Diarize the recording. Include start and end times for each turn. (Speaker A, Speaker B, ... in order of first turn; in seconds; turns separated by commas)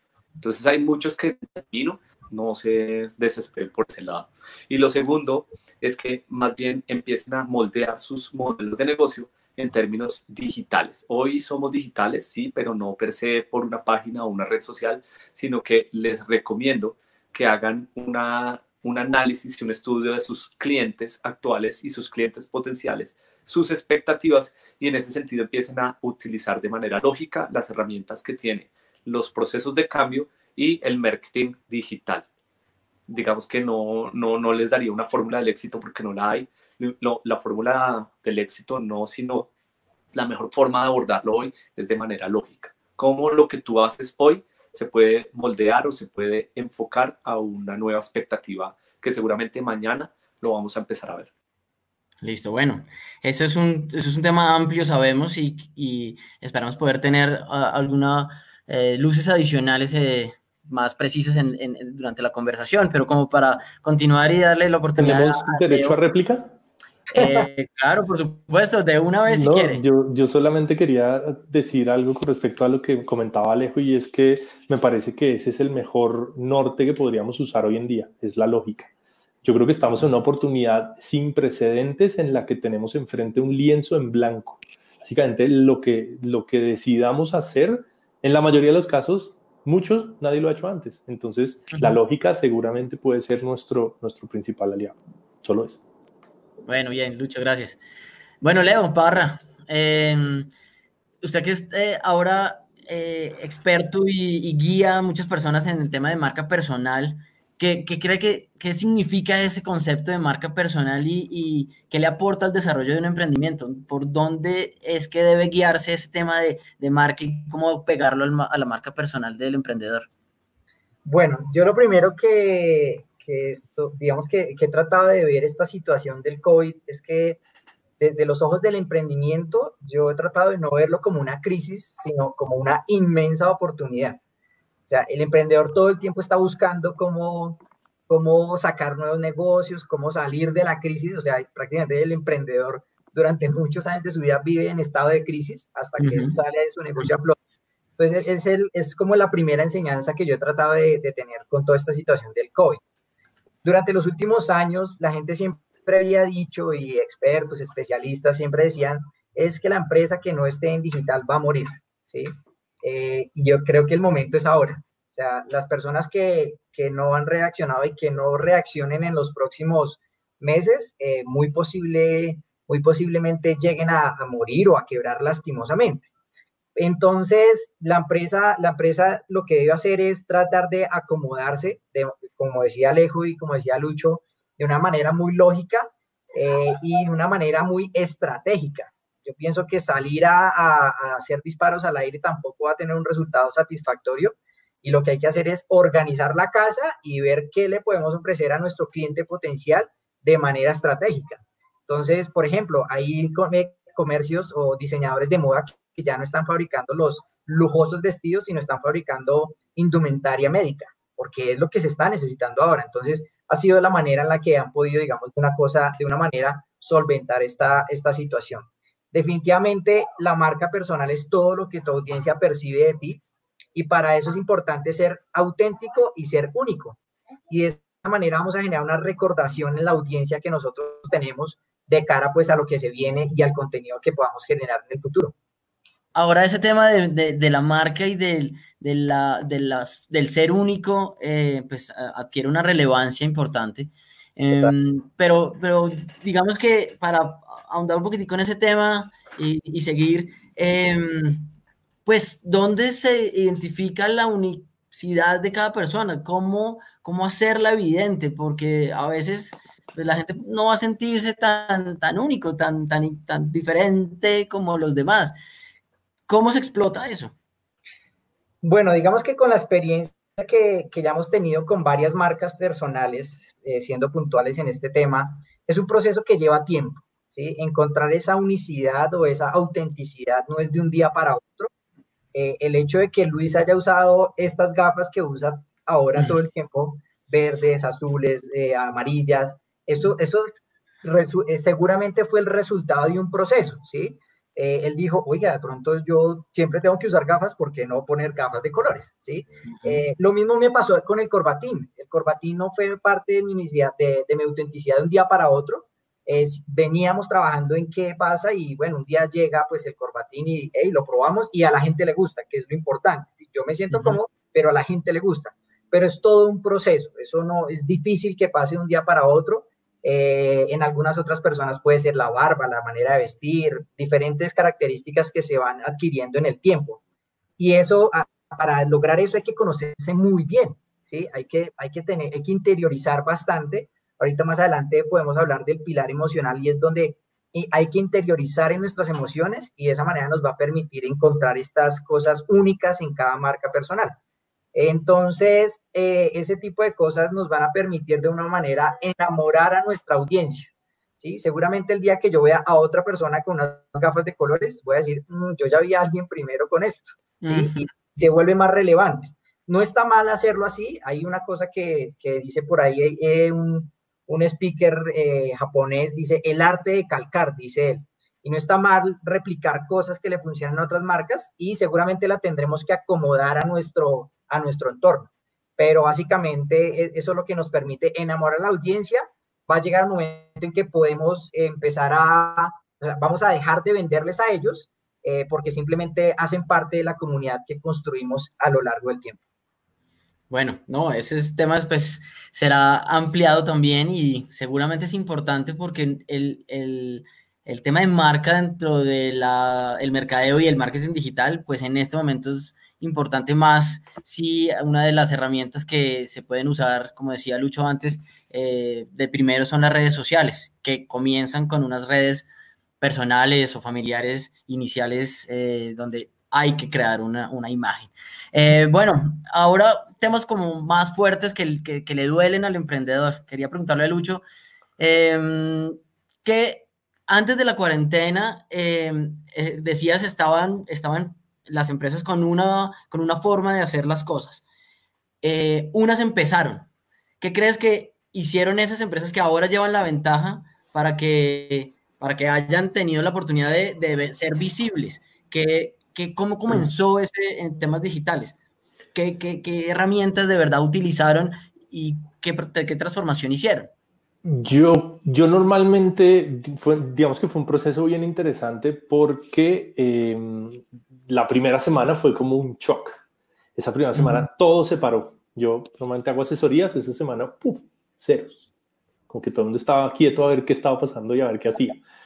Speaker A: 0.4-32.2, Speaker A: 33.1-39.5, Speaker A: 40.1-51.3, Speaker B: 52.2-66.0, Speaker C: 65.0-66.5, Speaker B: 67.1-69.8, Speaker D: 67.2-67.5, Speaker C: 69.3-78.9, Speaker C: 79.4-95.8, Speaker B: 96.7-97.8, Speaker B: 98.4-100.5, Speaker B: 101.2-120.1, Speaker D: 121.0-127.4, Speaker D: 128.0-134.2, Speaker D: 134.9-147.4, Speaker B: 146.0-146.4, Speaker D: 148.0-152.8, Speaker D: 153.6-162.3, Speaker D: 162.8-176.1, Speaker D: 176.8-223.2, Speaker D: 223.8-227.0, Speaker D: 227.5-235.3, Speaker B: 236.2-251.5, Speaker B: 252.1-265.4, Speaker B: 266.3-267.4, Speaker D: 268.6-281.7, Speaker D: 282.3-290.5, Speaker D: 291.0-327.0, Speaker B: 299.7-300.1, Speaker B: 313.9-314.2, Speaker D: 327.6-344.2, Speaker D: 344.7-389.4, Speaker B: 357.4-357.8, Speaker B: 390.5-412.5, Speaker B: 413.0-424.4, Speaker B: 425.0-434.6, Speaker B: 435.4-436.9, Speaker B: 437.4-448.6, Speaker B: 449.1-453.9, Speaker C: 454.4-463.2, Speaker C: 463.8-468.6, Speaker B: 464.1-464.5, Speaker C: 469.3-472.0